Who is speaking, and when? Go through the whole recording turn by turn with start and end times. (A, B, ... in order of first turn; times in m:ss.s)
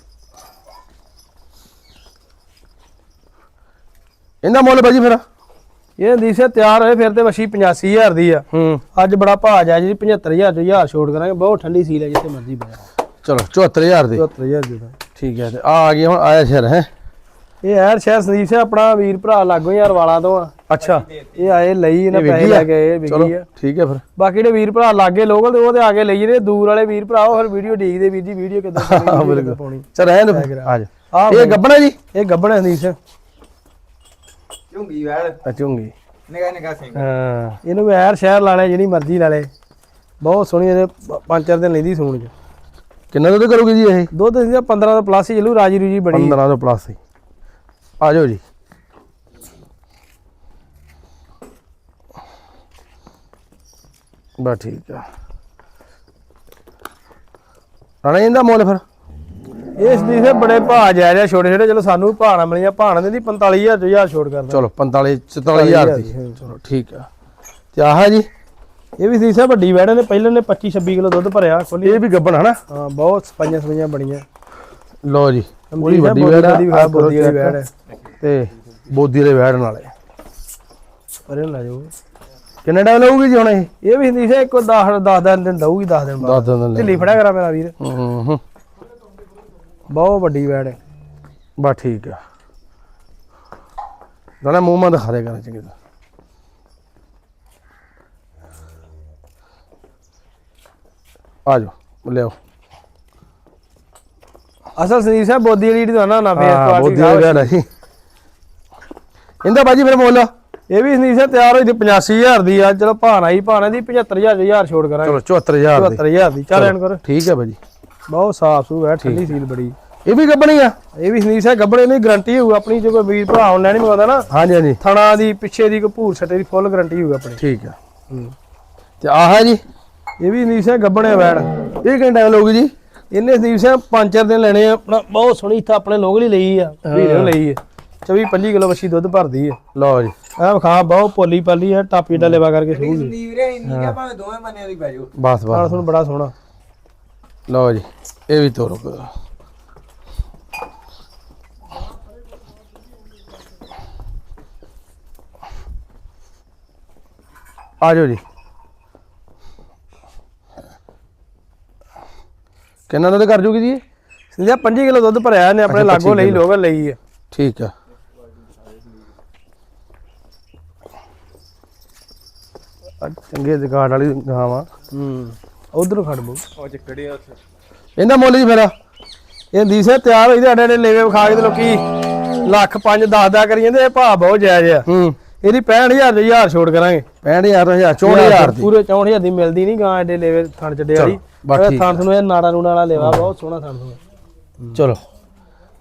0:04.4-0:05.2 A
0:06.0-0:12.8 B
0:08.5-0:08.8 A
0:13.2-0:14.2 A
0:14.2-0:15.0 B
0:15.2-0:16.9 A
0:17.6-0:20.5 B
0:20.7-0:21.1 A
0:20.8-0:21.4 C
0:21.4-0:23.5 B
0:22.1-0:24.0 A
0:24.2-0:31.6 B
0:28.8-0:32.0 A
0:32.1-0:33.0 B
0:34.7-0:35.4 C
0:35.4-0:35.9 A
0:36.3-0:37.1 C
0:36.9-0:37.6 A
0:37.6-0:39.5 B
0:40.2-0:42.3 B
0:43.1-0:44.1 A
0:44.1-0:46.4 B
0:46.1-0:47.0 A
0:48.0-0:48.4 A
0:54.4-0:55.1 A
0:58.0-0:58.8 A
0:59.8-1:04.6 B
1:04.5-1:07.1 A
1:05.5-1:06.5 B
1:07.7-1:08.3 A
1:09.0-1:12.0 B
1:11.8-1:12.6 A
1:12.7-1:14.2 B
1:15.0-1:17.6 A
1:15.7-1:17.7 B
1:18.2-1:19.9 A
1:21.3-1:21.9 B
1:22.6-1:23.7 A
1:23.8-1:27.8 B
1:26.2-1:27.1 A
1:27.8-1:28.4 A
1:29.9-1:30.8 B
1:31.6-1:32.2 A
1:34.4-1:35.7 A
1:41.5-1:42.4 A
1:44.8-1:47.5 B
1:46.4-1:47.7 A
1:49.4-1:50.3 A
1:50.7-1:55.2 B
1:55.0-1:57.6 A
1:55.8-1:57.0 B
1:58.1-1:59.8 B
1:59.0-1:59.3 A
2:00.0-2:00.8 A
2:01.0-2:04.3 B
2:04.3-2:04.8 A
2:04.8-2:07.4 B
2:07.4-2:07.8 A
2:09.0-2:09.6 A
2:10.2-2:11.5 B
2:11.8-2:12.7 A
2:13.1-2:19.6 B
2:16.9-2:17.4 A
2:19.8-2:20.1 A
2:20.4-2:23.2 B
2:22.7-2:25.1 C
2:23.7-2:24.0 A
2:25.2-2:25.8 A
2:25.5-2:26.3 B
2:27.5-2:29.1 A
2:37.8-2:38.2 A
2:42.9-2:43.8 A
2:44.3-2:47.0 B
2:45.7-2:46.4 A
2:47.3-2:47.7 A
2:53.0-2:54.7 A
2:54.9-2:56.4 B
2:56.6-2:57.4 C
2:58.0-2:58.7 A
2:59.5-3:01.8 B
3:02.4-3:04.9 B
3:04.9-3:05.2 A
3:05.4-3:07.1 B
3:07.2-3:08.7 A
3:08.0-3:14.0 B
3:11.0-3:12.0 A
3:13.0-3:13.3 A
3:14.8-3:15.0 A